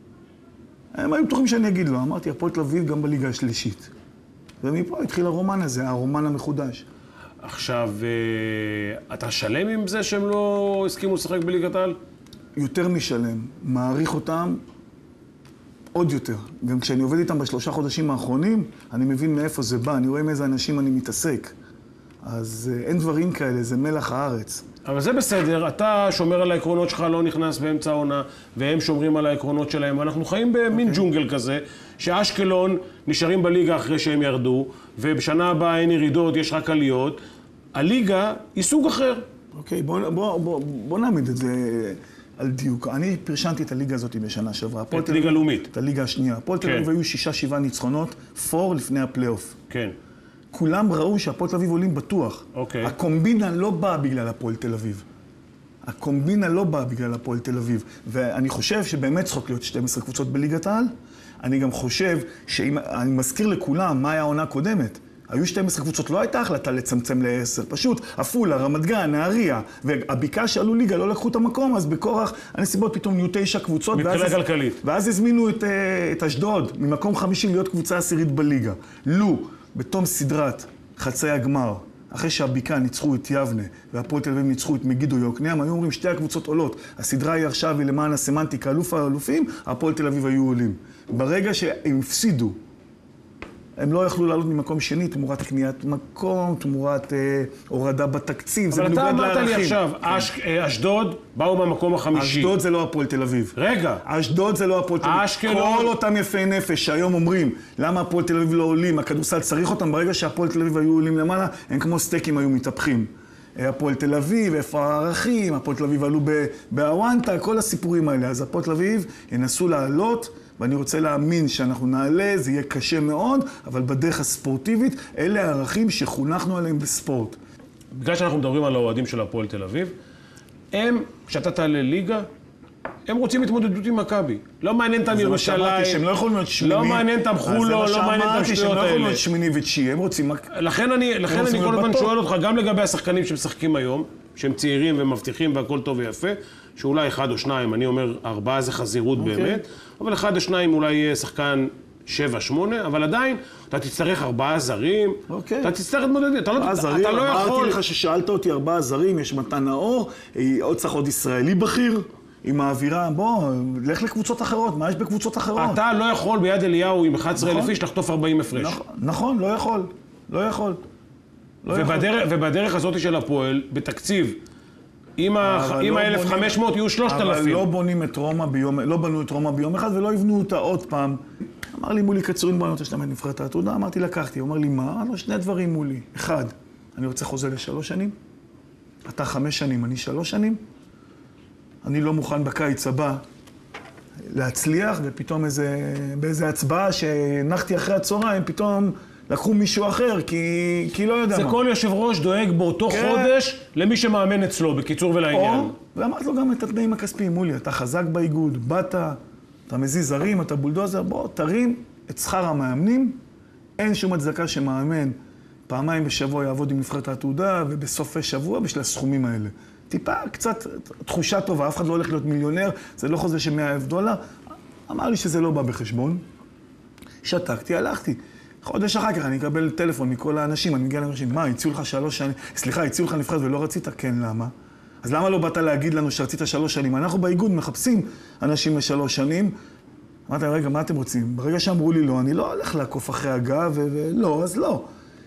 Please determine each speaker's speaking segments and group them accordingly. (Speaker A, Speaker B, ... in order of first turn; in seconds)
Speaker A: 0.9-3.9, 4.6-6.8, 12.6-14.6, 15.9-21.6, 22.2-24.7, 30.7-31.0, 39.5-49.6, 50.5-55.0, 55.9-60.9, 61.4-92.6, 93.8-100.3, 102.1-127.4, 135.1-140.5, 141.3-142.1, 149.2-149.6, 155.3-155.8, 156.5-165.8, 167.4-167.7, 168.5-170.8, 171.6-172.1, 175.4-181.2, 181.7-188.1, 189.1-190.6, 191.8-193.2, 194.3-201.6, 202.9-203.3, 205.3-209.2, 209.7-213.2, 213.8-215.2, 215.7-224.2, 224.9-226.2, 227.2-234.5, 235.0-239.5, 240.3-244.9
Speaker B: 7.4-12.0, 24.9-37.2, 37.8-39.2, 44.9-45.7, 46.6-46.9, 49.7-50.0, 52.5-52.9, 73.9-74.8, 98.7-102.5, 103.6-104.0, 105.0-106.0, 127.9-129.9, 130.7-132.3, 133.1-136.1, 136.6-139.2, 140.5-157.8, 165.6-168.8, 171.7-174.4, 175.2-177.7, 201.3-205.8